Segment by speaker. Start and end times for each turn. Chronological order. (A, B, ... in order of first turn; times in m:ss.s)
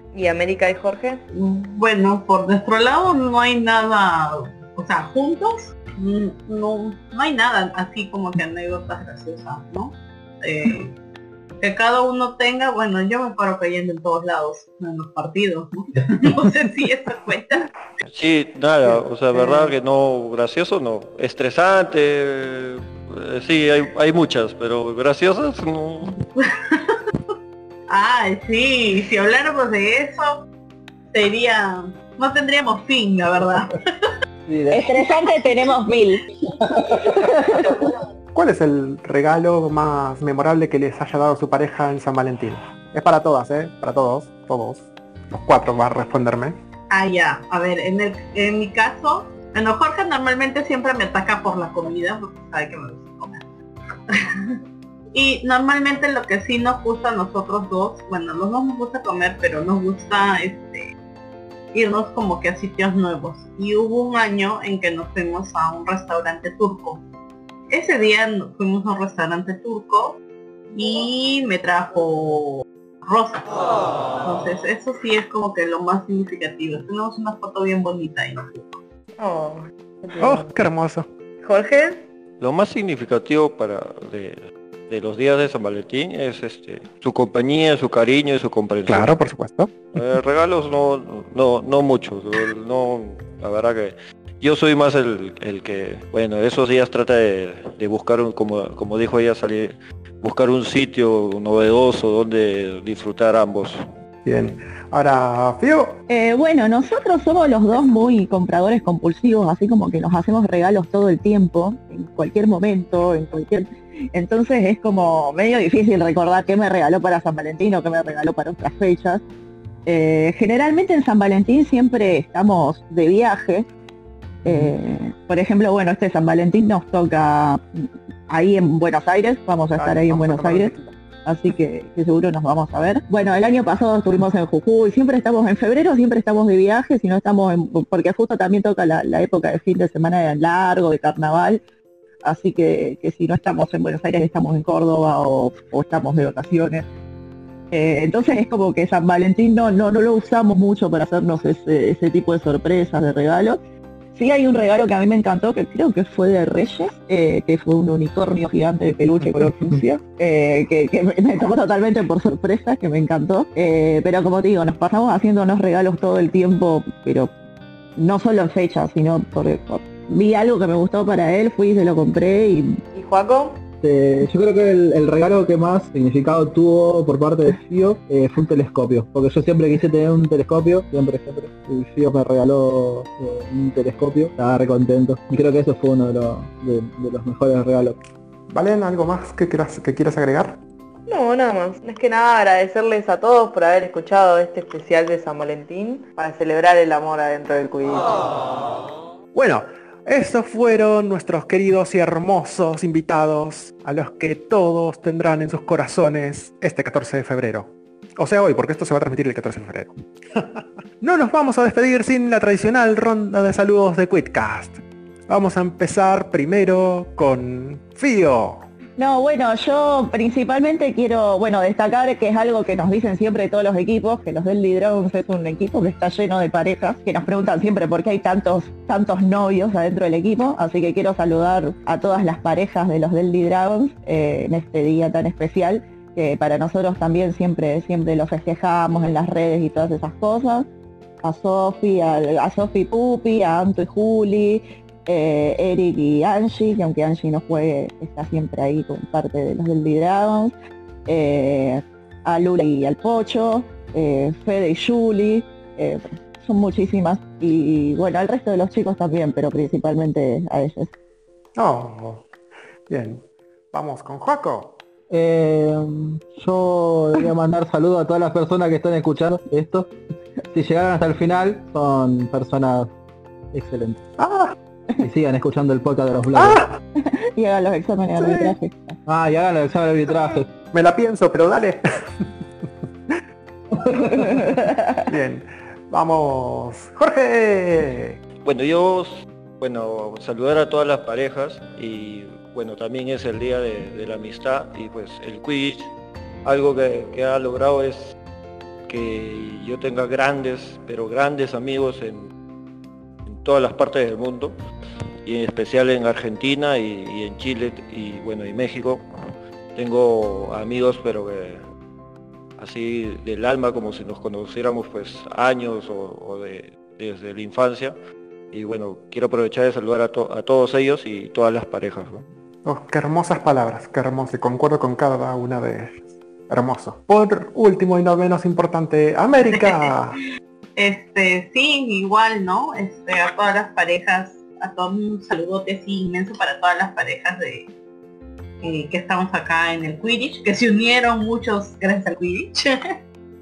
0:00.1-0:01.2 A
0:01.3-0:11.0 B
0:11.6-0:17.7 B
0:18.1-0:26.2 C
0:26.4-0:27.0 B
0:27.9-0:30.4 B
0:31.1-0:34.1 B
0:34.5-0:34.9 D
0:34.7-0:36.2 E
0:36.8-0:37.9 E
0:38.3-0:46.6 F
0:46.9-0:53.4 B
0:54.1-0:54.6 B
0:55.1-1:00.9 B
1:01.7-1:07.0 B
1:07.7-1:10.2 B
1:10.7-1:13.6 B
1:14.2-1:18.8 B
1:19.2-1:20.5 A
1:20.2-1:21.1 F
1:21.4-1:22.0 A
1:22.4-1:29.1 C
1:28.9-1:29.9 F
1:29.9-1:43.8 C
1:44.2-1:46.0 F
1:46.1-1:59.2 E
1:59.8-2:03.7 E
2:04.4-2:10.7 E
2:04.5-2:04.7 D
2:09.8-2:10.9 F
2:11.2-2:21.6 E
2:22.2-2:26.8 E
2:27.7-2:33.6 E
2:34.1-2:47.3 E
2:48.0-2:52.8 E
2:52.9-2:53.6 A
2:53.8-3:08.0 D
3:08.5-3:10.6 F
3:11.1-3:18.1 A
3:19.3-3:38.6 F
3:39.0-4:00.7 E
4:01.2-4:10.5 E
4:11.1-4:20.9 E
4:21.6-4:22.3 F
4:22.9-4:24.8 F
4:25.1-4:29.9 D
4:30.5-4:32.9 D
4:33.5-4:34.0 D
4:34.2-4:34.5 F
4:35.0-4:36.7 D
4:36.4-4:36.7 F
4:37.0-4:39.0 E
4:38.2-4:38.6 F
4:39.1-4:40.5 D
4:40.7-4:41.8 F
4:44.4-4:44.7 E
4:45.1-4:48.2 F
4:48.4-4:55.9 C
4:56.4-4:58.2 C
4:58.8-5:02.3 C
5:03.2-5:04.6 C
5:05.2-5:09.0 C
5:09.8-5:11.6 C
5:12.6-5:18.0 C
5:18.5-5:22.2 C
5:22.6-5:30.2 F
5:29.5-5:29.9 B
5:30.8-5:37.7 B
5:38.6-5:42.8 B